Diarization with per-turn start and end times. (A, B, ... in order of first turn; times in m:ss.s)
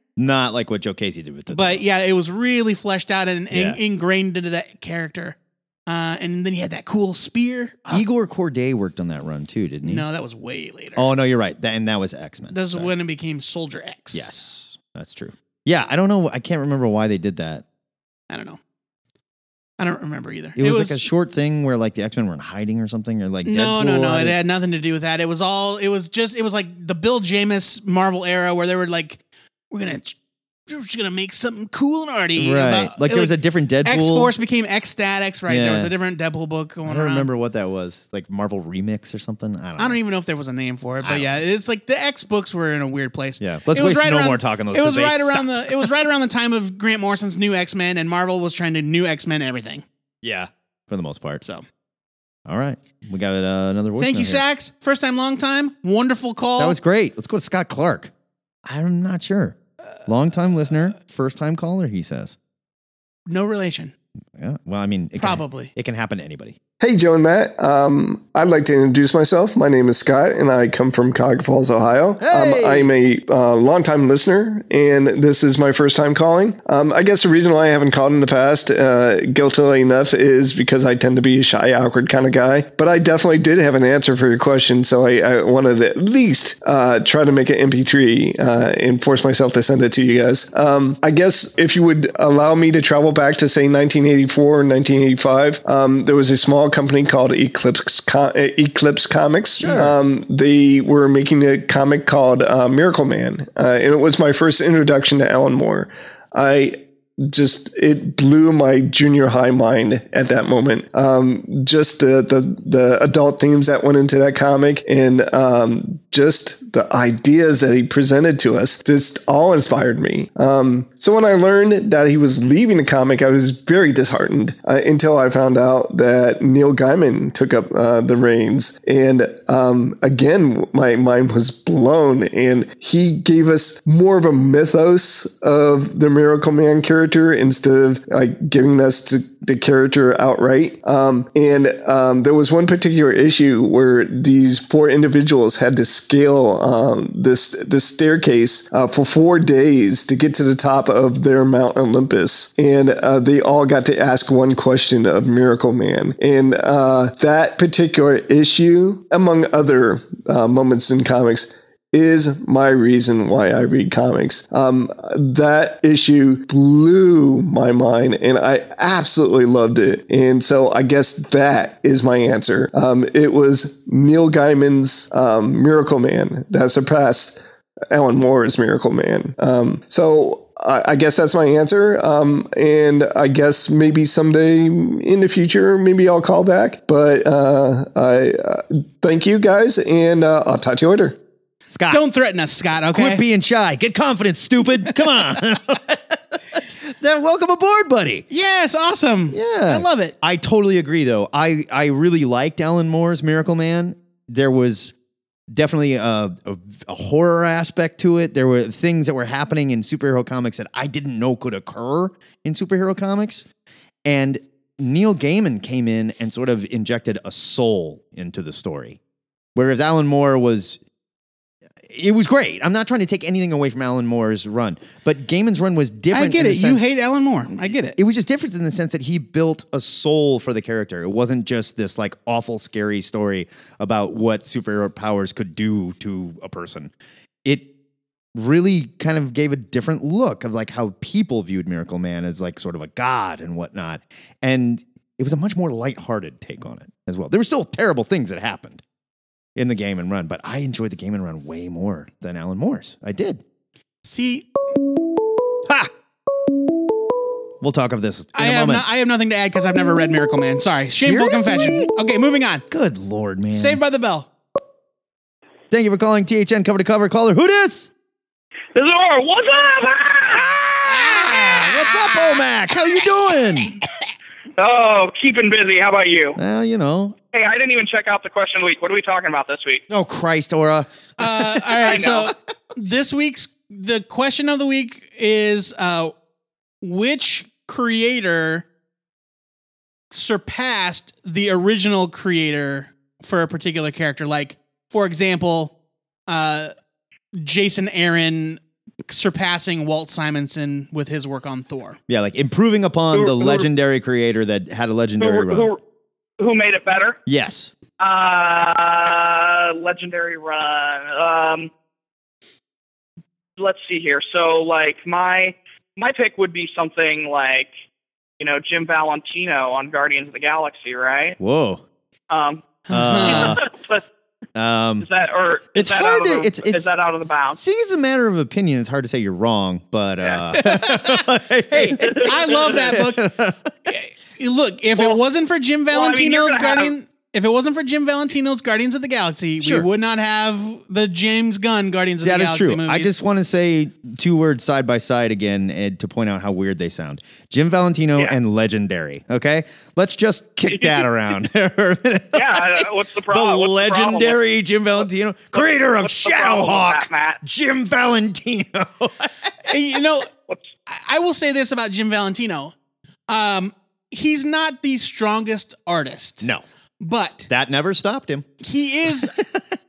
0:00.2-0:01.8 A
0:01.5-0:05.4 B
0:03.5-0:03.8 A
0:05.9-0:08.0 B
0:07.9-0:10.0 A
0:09.8-0:11.1 B
0:11.0-0:12.9 A
0:12.5-0:14.4 B
0:14.1-0:17.6 A
0:18.3-0:18.6 B
0:19.8-0:21.0 B
0:20.6-0:24.4 A
0:23.4-0:29.2 B
0:29.7-0:30.2 B
0:30.7-0:33.3 B
0:32.4-0:34.3 A
0:33.8-0:37.3 B
0:35.5-0:35.9 A
0:36.8-0:40.0 A
0:39.8-0:49.8 B
0:41.0-0:41.4 A
0:43.4-0:45.9 A
0:50.2-0:51.4 A
0:52.4-0:54.4 A
0:54.0-0:56.8 B
0:56.6-0:58.1 A
0:58.6-1:02.4 A
1:03.3-1:03.9 B
1:04.4-1:06.6 A
1:05.2-1:05.7 B
1:06.8-3:11.2 C
1:12.2-1:12.9 A
1:39.6-1:40.0 A
3:11.7-3:12.0 A
3:11.9-3:13.2 B
3:12.9-3:18.2 A
3:18.3-3:20.1 B
3:19.3-3:24.9 A
3:25.5-3:33.4 A
3:34.0-3:39.0 A
3:39.5-3:40.8 A
3:41.8-3:46.8 A
3:46.1-3:47.9 B
3:47.5-3:56.9 A
3:58.3-4:08.8 A
4:09.6-4:13.4 A
4:14.0-4:14.5 B
4:17.6-4:18.8 A
4:18.3-4:22.6 B
4:20.8-4:21.9 A
4:22.7-4:23.8 A
4:23.5-4:24.3 B
4:25.7-4:27.9 A
4:28.7-4:32.4 D
4:30.3-4:33.7 A
4:34.6-4:36.4 D
4:36.4-4:37.2 A
4:37.3-4:39.8 D
4:39.9-4:42.2 A
4:41.2-4:46.1 B
4:41.8-4:42.3 D
4:46.8-4:48.6 B
4:50.1-4:55.7 B
4:56.3-4:56.7 B
4:57.4-5:02.0 B
5:02.1-5:05.7 A
5:03.1-5:03.7 D
5:05.2-5:05.8 D
5:06.4-5:07.2 D
5:07.2-5:07.7 A
5:08.0-5:11.7 D
5:13.6-5:17.7 D
5:18.4-5:21.4 D
5:21.4-5:21.8 A
5:22.3-5:22.7 D
5:22.9-5:23.6 B
5:22.9-5:23.6 A
5:23.2-5:24.0 D
5:24.5-5:25.0 A
5:25.0-5:27.6 D
5:25.7-5:26.9 A
5:27.5-5:33.6 A
5:30.5-5:31.1 B
5:31.9-5:32.6 D
5:32.1-5:33.2 B
5:33.9-5:43.2 B
5:35.9-5:36.9 D
5:39.6-5:39.9 A
5:42.2-5:59.3 A
5:50.7-5:51.1 D
5:52.3-5:54.4 D
5:55.0-5:57.4 D
5:59.6-6:00.3 B
6:00.9-6:02.7 B
6:03.3-6:06.5 B
6:07.0-6:07.5 B
6:07.5-6:08.5 A
6:08.6-6:09.3 B
6:09.2-6:09.4 A